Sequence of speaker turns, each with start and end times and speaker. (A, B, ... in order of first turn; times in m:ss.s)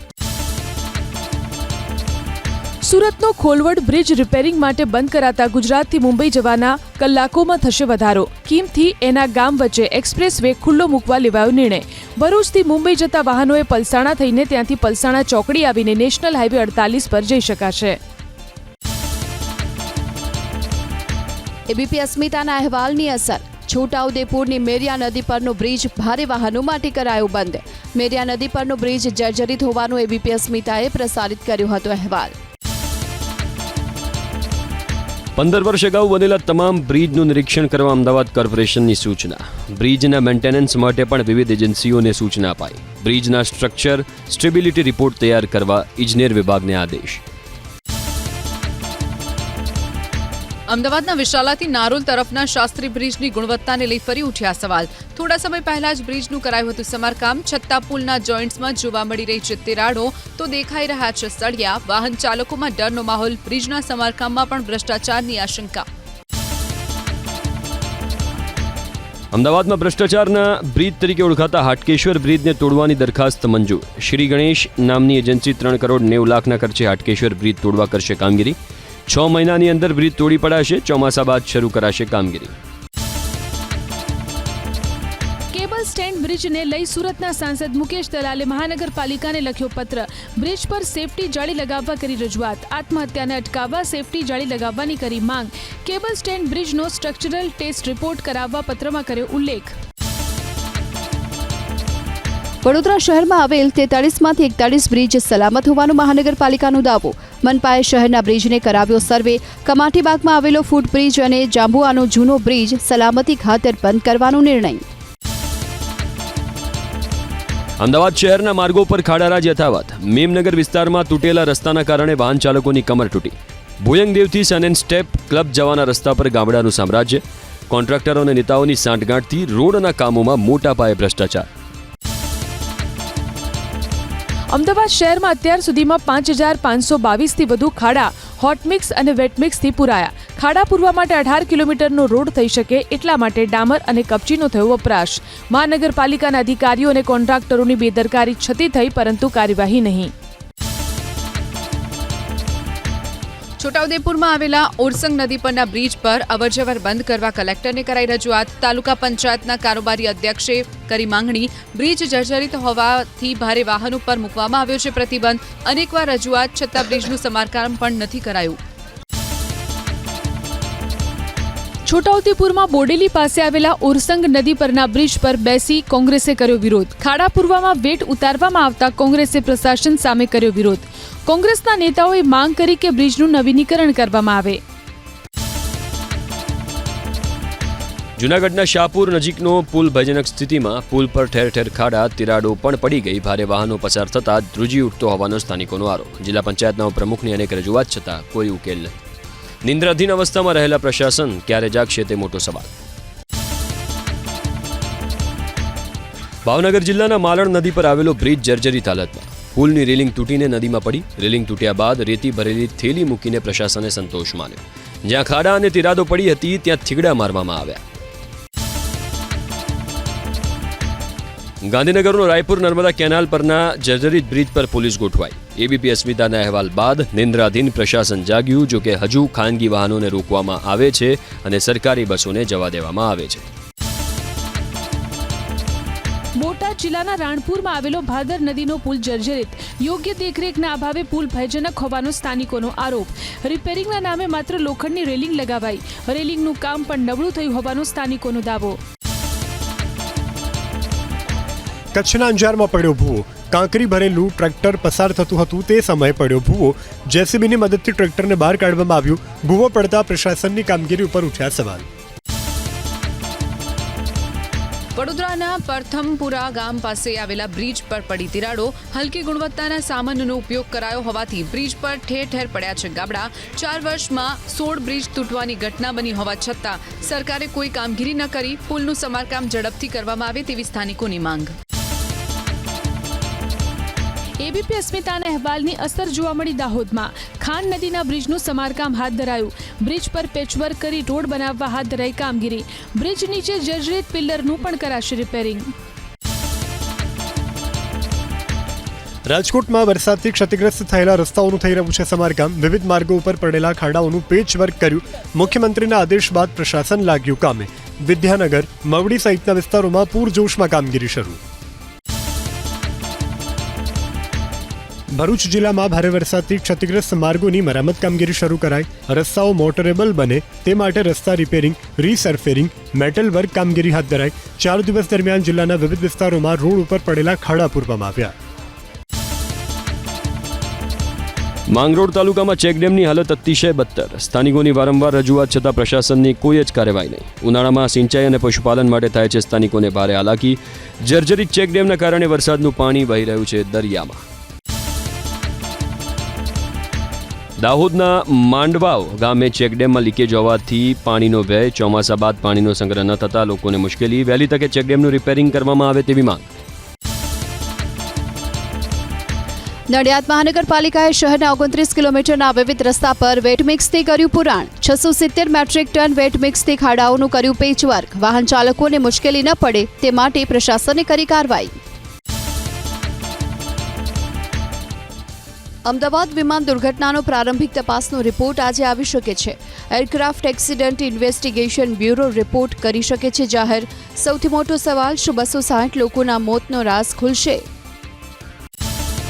0:02.8-0:18.0 A
0:21.7-0:32.3 B
0:35.4-0:47.2 C
0:50.7-1:05.8 D
1:09.3-1:18.6 C
1:19.1-1:22.5 C
1:25.5-1:39.8 A
1:42.6-1:54.8 B
1:57.8-2:11.5 C
2:14.5-2:30.1 A
2:33.6-2:48.6 D
2:51.8-3:04.6 A
3:08.2-3:18.9 C
3:19.6-3:22.7 C
3:26.4-3:37.8 C
3:41.6-3:53.4 C
3:56.4-4:08.8 A
4:11.9-4:21.8 E
4:25.0-4:41.6 D
4:44.4-4:55.7 A
4:59.3-5:11.4 E
5:15.1-5:28.3 E
5:31.7-5:44.2 C
5:47.6-5:56.5 C
5:59.9-6:11.8 B
6:15.8-6:27.6 B